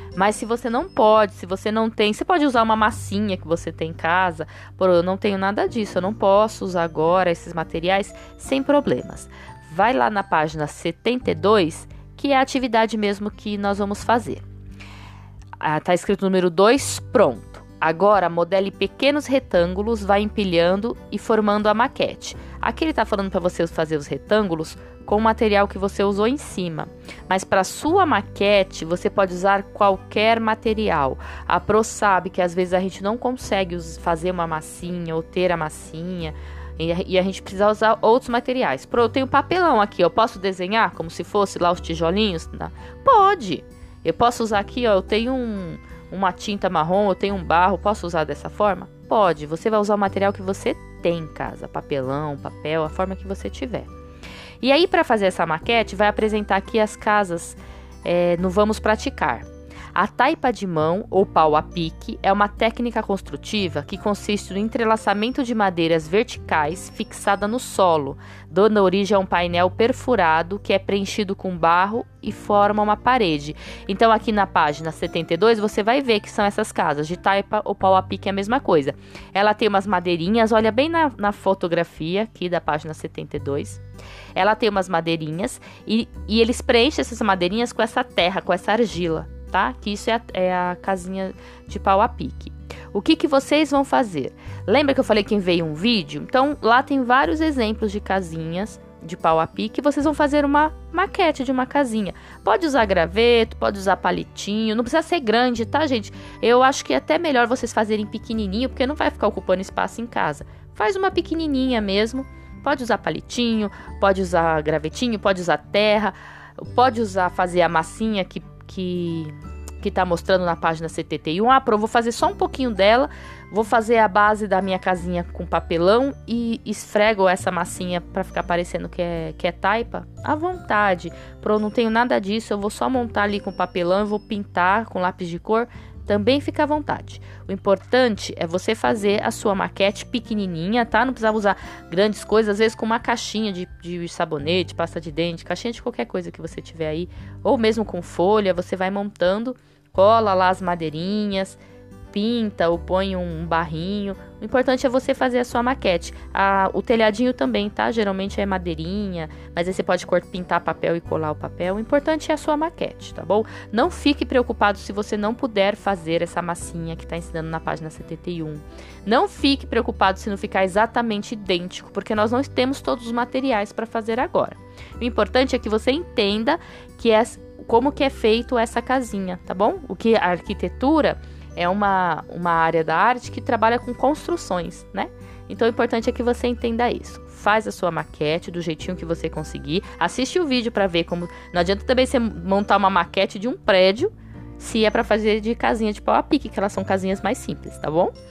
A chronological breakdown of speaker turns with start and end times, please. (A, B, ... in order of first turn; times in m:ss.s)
0:00.2-0:14.4 A
0:15.6-0:53.9 A
0:54.6-1:23.8 A
1:24.4-2:31.6 A
2:32.1-3:18.1 A